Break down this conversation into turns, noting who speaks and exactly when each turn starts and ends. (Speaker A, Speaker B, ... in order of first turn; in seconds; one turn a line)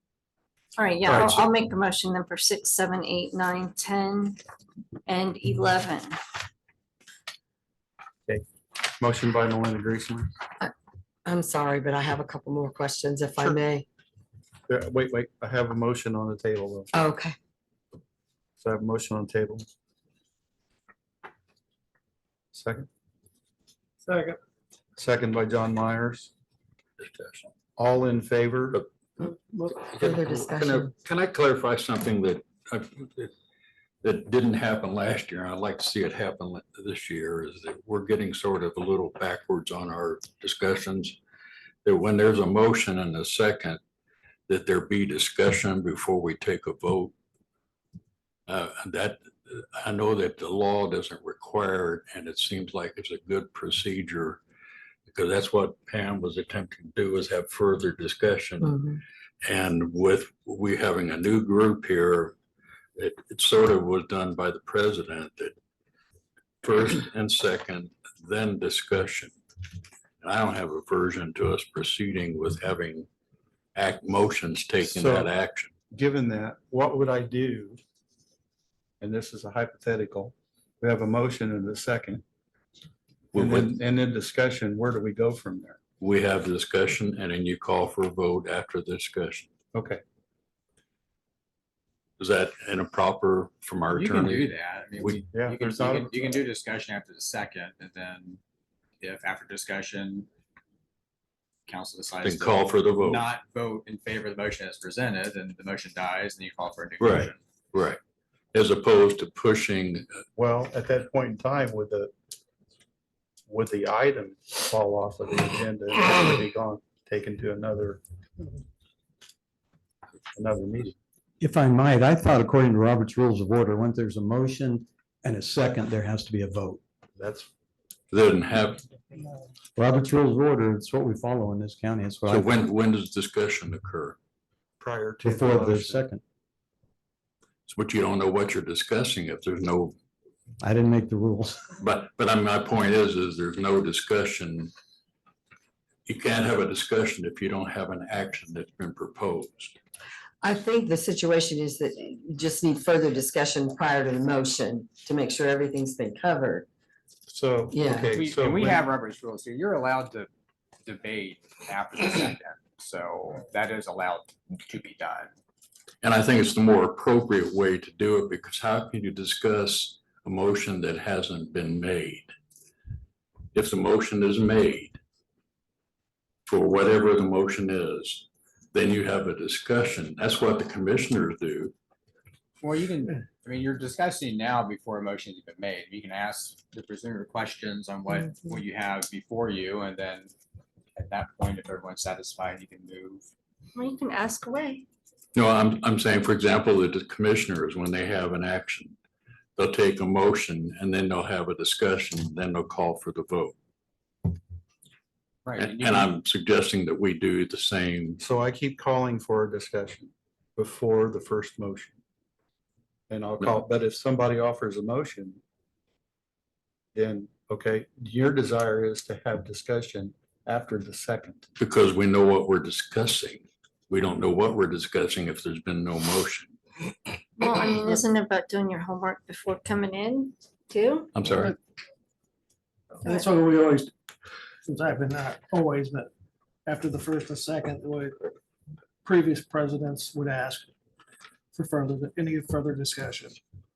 Speaker A: 0.8-4.4
Speaker A: 5.1-6.2
Speaker B: 9.0-10.3
Speaker C: 11.2-13.8
Speaker B: 14.7-16.9
Speaker C: 16.9-17.4
Speaker B: 18.6-19.6
Speaker B: 22.5-22.9
Speaker D: 24.0-24.4
Speaker B: 25.0-26.3
Speaker E: 27.0-27.5
Speaker B: 27.8-28.8
Speaker E: 29.7-33.3
Speaker C: 29.9-30.9
Speaker E: 34.0-41.2
Speaker E: 41.8-43.8
Speaker E: 44.5-47.1
Speaker E: 48.5-54.4
Speaker E: 55.1-58.7
Speaker C: 58.6-59.0
Speaker E: 59.4-62.4
Speaker E: 63.0-65.5
Speaker E: 66.6-69.3
Speaker E: 70.2-73.1
Speaker E: 73.7-75.7
Speaker B: 74.8-75.3
Speaker B: 75.9-77.8
Speaker B: 79.0-82.2
Speaker E: 83.3-83.7
Speaker B: 83.3-85.8
Speaker E: 86.0-89.5
Speaker B: 89.7-90.0
Speaker E: 92.2-95.2
Speaker F: 93.9-98.4
Speaker B: 95.3-96.4
Speaker F: 99.0-100.3
Speaker F: 101.7-107.4
Speaker E: 102.2-103.3
Speaker E: 107.0-108.0
Speaker E: 108.5-110.1
Speaker B: 110.3-112.1
Speaker B: 113.5-118.0
Speaker B: 120.3-120.9
Speaker G: 121.4-126.8
Speaker B: 127.2-127.5
Speaker E: 128.1-128.8
Speaker G: 129.8-132.6
Speaker E: 132.3-134.2
Speaker B: 134.8-136.0
Speaker G: 135.2-136.2
Speaker E: 137.7-139.9
Speaker G: 140.6-141.6
Speaker E: 141.8-144.7
Speaker E: 146.1-149.7
Speaker C: 150.4-156.7
Speaker B: 157.3-158.9
Speaker C: 157.7-158.1
Speaker F: 158.1-160.3
Speaker F: 160.8-165.3
Speaker E: 166.0-172.3
Speaker E: 173.5-175.0
Speaker E: 176.4-181.7
Speaker F: 182.6-190.3
Speaker F: 190.9-193.3
Speaker A: 193.7-194.8
Speaker E: 195.3-198.9
Speaker E: 199.6-203.5
Speaker F: 205.4-206.1
Speaker E: 205.5-208.2
Speaker B: 208.2-212.0
Speaker B: 213.1-215.4
Speaker B: 216.9-221.5
Speaker E: 221.6-226.6
Speaker A: 227.4-231.1
Speaker E: 231.1-231.5
Speaker D: 233.0-233.9
Speaker D: 234.6-236.1
Speaker D: 236.7-238.3
Speaker D: 239.0-240.7
Speaker D: 241.5-243.4